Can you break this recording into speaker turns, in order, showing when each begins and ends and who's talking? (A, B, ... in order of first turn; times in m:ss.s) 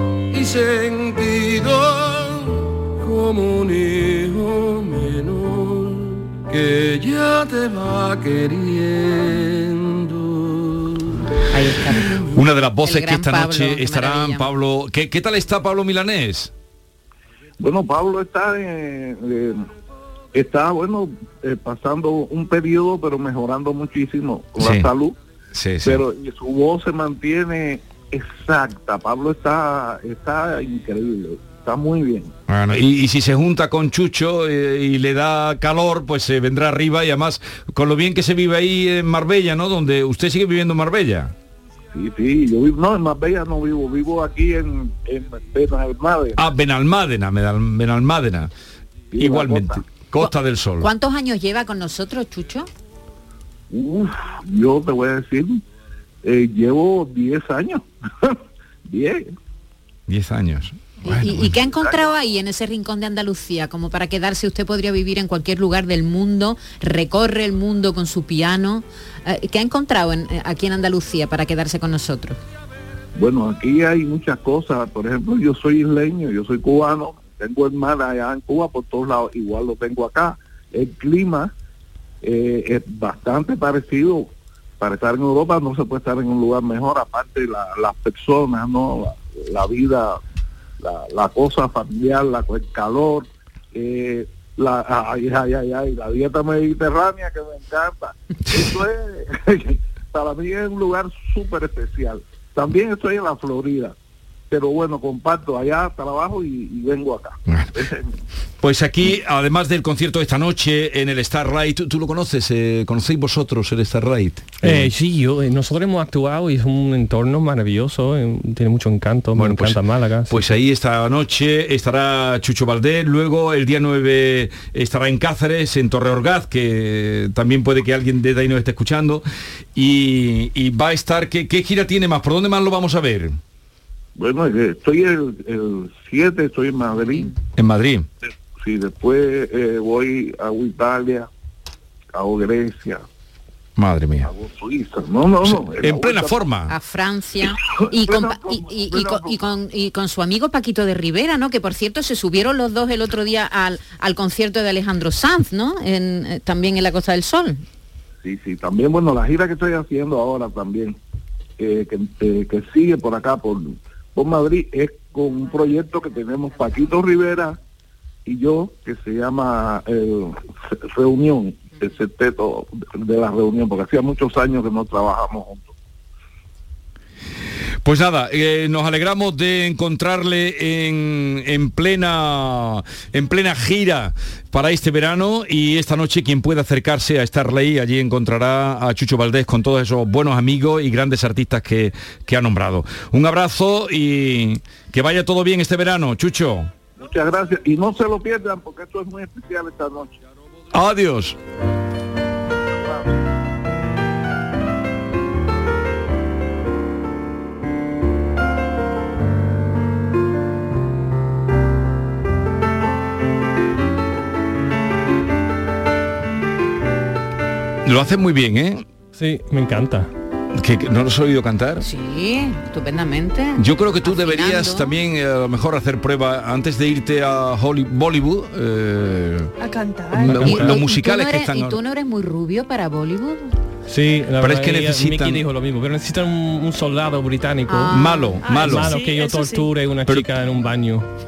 0:00.3-0:11.1 A
0:11.5-0:12.1 B
0:12.3-0:16.5 C
0:12.8-0:14.5 B
0:17.6-0:19.6 D
0:20.3-0:25.1 D
0:24.6-0:24.9 C
0:25.5-0:26.0 C
0:25.8-0:32.3 D
0:32.5-0:41.3 C
0:41.9-0:46.4 D
0:46.4-0:48.5 C
0:49.1-0:49.8 D
0:49.2-0:50.9 C
0:50.2-0:52.7 B
0:53.7-0:55.6 D
0:56.2-0:57.8 D
0:58.9-0:59.3 D
1:00.1-1:01.6 C
1:01.0-1:12.4 B
1:13.2-1:21.5 D
1:22.2-1:24.3 D
1:24.8-1:30.2 D
1:30.8-1:43.9 D
1:38.5-1:38.8 C
1:44.5-1:48.1 D
1:47.5-1:47.8 C
1:48.6-1:54.9 C
1:54.6-2:00.5 E
1:59.4-2:13.4 C
2:14.2-2:17.3 D
2:17.0-2:17.3 B
2:17.6-2:18.1 C
2:18.6-2:21.3 D
2:22.1-2:23.0 D
2:23.8-2:24.3 C
2:24.2-2:26.5 D
2:25.4-2:26.7 C
2:26.7-2:37.6 B
2:27.8-2:29.3 D
2:38.2-2:41.0 D
2:41.6-2:47.6 D
2:48.3-2:50.3 D
2:50.9-2:55.7 D
2:57.8-3:16.7 C
3:17.0-3:20.1 D
3:20.7-3:21.4 C
3:37.8-3:38.8 C
3:39.2-3:40.1 E
3:40.6-3:41.8 C
3:41.8-3:45.0 B
3:43.6-3:49.5 C
3:49.6-3:50.5 F
3:50.2-3:51.8 C
3:50.2-3:50.8 E
3:50.3-3:53.5 B
3:53.9-4:01.1 E
3:54.4-3:55.4 C
3:57.7-3:58.4 B
3:57.9-3:58.9 C
3:58.4-3:59.7 F